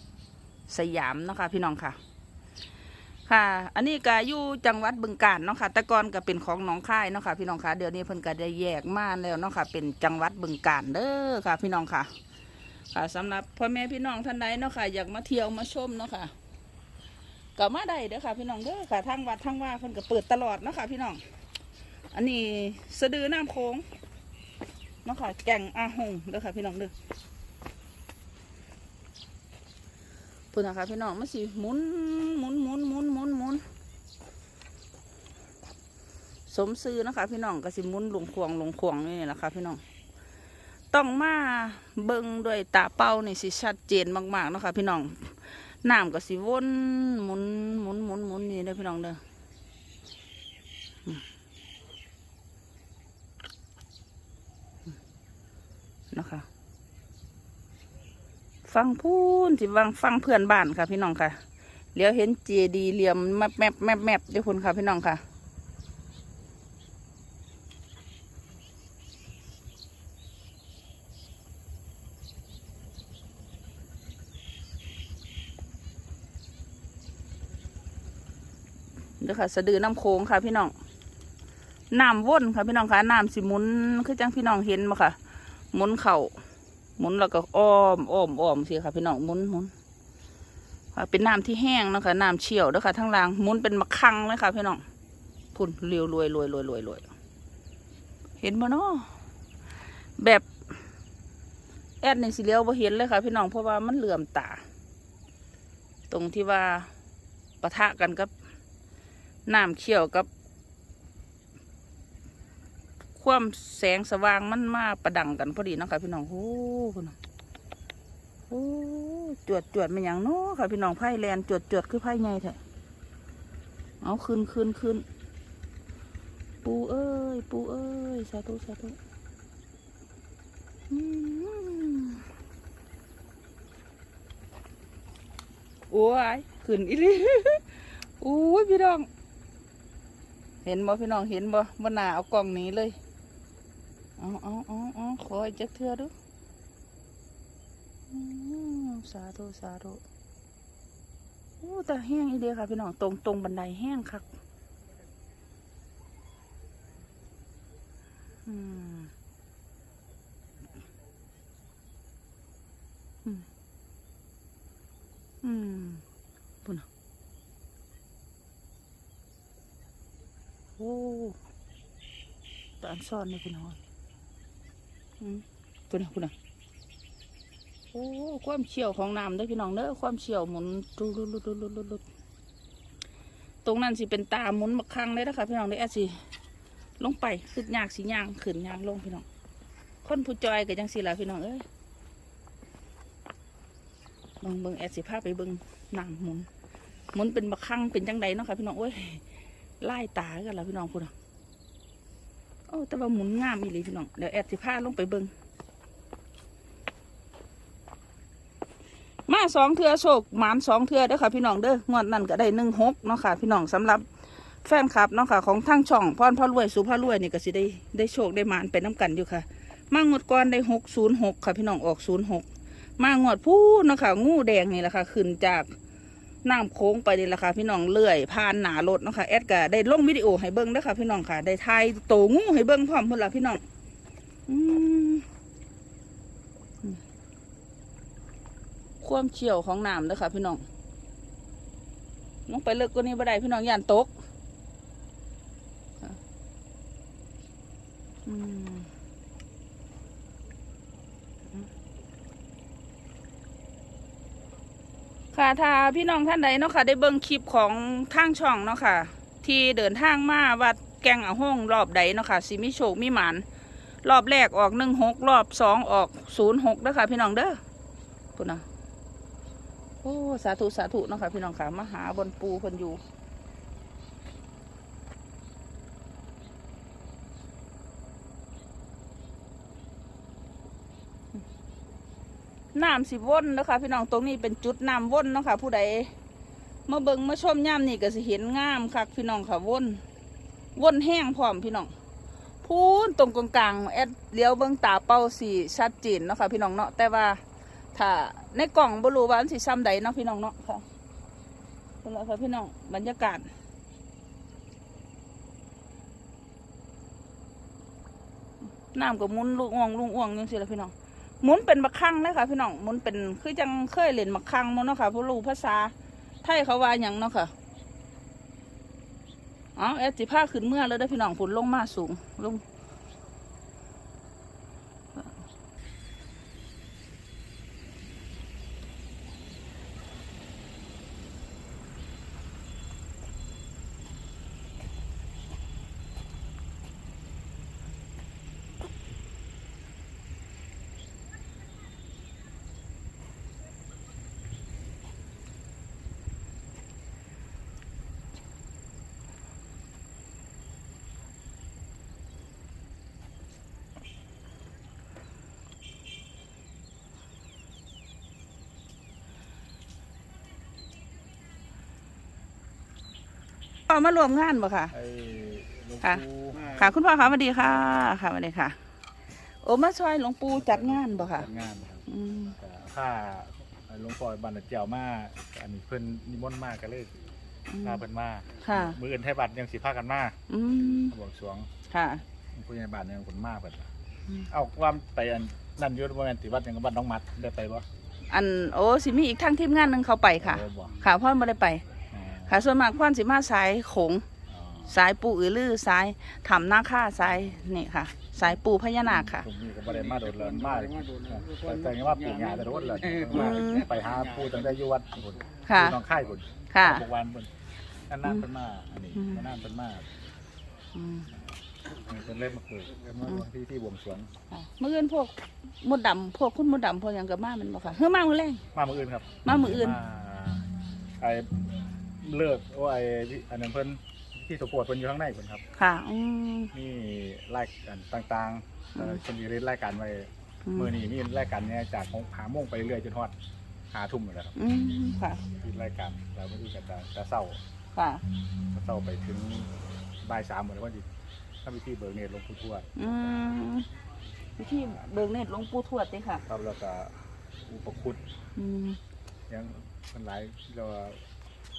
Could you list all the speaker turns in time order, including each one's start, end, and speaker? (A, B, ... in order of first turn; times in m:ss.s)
0:00.7-0:02.0 A
0:03.3-0:12.1 A
0:12.9-0:16.3 A
0:17.6-0:21.2 A
0:22.1-0:23.8 A
0:25.0-0:26.9 A
0:30.5-0:33.6 A
0:36.5-0:39.8 A
0:40.9-0:49.2 A
0:56.1-0:56.5 A
0:58.7-1:01.4 A
1:02.0-1:05.2 A
1:19.2-1:20.7 A
1:21.9-1:25.2 A
1:25.7-1:26.3 A
1:27.0-1:29.7 A
1:31.0-1:34.8 A
1:35.5-1:37.1 A
1:38.4-1:39.1 A
1:40.2-1:40.5 A
1:42.0-1:44.6 A
1:46.1-1:46.9 A
1:47.6-1:48.3 A
1:49.5-1:50.3 A
1:53.2-1:57.2 A
1:58.5-2:02.6 A
2:04.0-2:05.0 A
2:06.6-2:09.0 A
2:10.9-2:12.2 A
2:15.9-2:19.1 A
2:20.6-2:23.0 A
2:24.2-2:26.1 A
2:28.1-2:30.0 A
2:31.6-2:34.3 A
2:38.5-2:39.1 A
2:45.4-2:46.0 A
2:50.8-2:51.4 A
2:52.8-2:53.8 A
2:55.2-2:56.3 A
2:57.9-3:02.0 A
3:03.6-3:06.2 A
3:07.0-3:09.3 A
3:10.0-3:11.6 A
3:14.4-3:16.5 A
3:17.1-3:19.2 A
3:19.8-3:21.1 A
3:22.7-3:25.3 A
3:29.3-3:34.0 A
3:34.6-3:42.5 A
3:43.0-3:45.7 A
3:46.4-3:53.6 A
3:54.5-3:55.2 A
3:59.0-4:00.6 A
4:02.5-4:04.1 A
4:08.3-4:08.9 A
4:15.3-4:23.4 A
4:24.0-4:27.6 A
4:28.4-4:28.6 A
4:30.0-4:33.0 A
4:42.8-4:46.1 A
4:46.9-4:50.0 A
4:50.8-4:51.9 A
4:52.6-4:57.4 A
4:58.0-5:00.8 A
5:02.0-5:03.5 A
5:08.9-5:17.5 A
5:19.8-5:22.6 A
6:03.9-6:04.9 A
6:04.9-6:06.8 B
6:06.0-6:08.8 A
6:09.6-6:11.5 A
6:10.5-6:17.1 B
6:12.1-6:12.6 A
6:17.7-6:18.0 A
6:17.8-6:20.4 B
6:18.6-6:19.0 A
6:20.5-6:21.1 A
6:21.1-6:21.7 B
6:21.9-6:22.2 A
6:22.5-6:23.9 B
6:24.5-6:27.9 B
6:28.3-6:31.8 A
6:30.4-6:31.0 B
6:32.1-6:32.6 B
6:32.5-6:34.2 A
6:34.5-6:35.0 B
6:34.9-6:39.5 A
6:39.3-6:47.5 B
6:43.3-6:43.9 A
6:45.7-6:46.0 A
6:46.7-6:47.0 A
6:48.1-6:50.1 B
6:49.2-6:49.4 A
6:51.0-6:51.3 A
6:52.1-6:54.3 B
6:54.5-6:58.6 A
6:58.7-7:00.7 B
6:59.4-7:00.0 A
7:01.2-7:01.7 B
7:02.2-7:05.6 B
7:05.8-7:06.7 A
7:06.7-7:13.3 B
7:10.6-7:10.9 A
7:13.9-7:14.6 B
7:14.6-7:15.4 A
7:15.6-7:17.6 B
7:18.0-7:18.2 A
7:18.7-7:19.7 B
7:20.2-7:21.0 B
7:21.6-7:23.4 B
7:23.0-7:23.9 A
7:24.6-7:26.4 A
7:26.5-7:27.1 B
7:27.7-7:28.2 B
7:28.6-7:29.0 A
7:29.5-7:31.3 B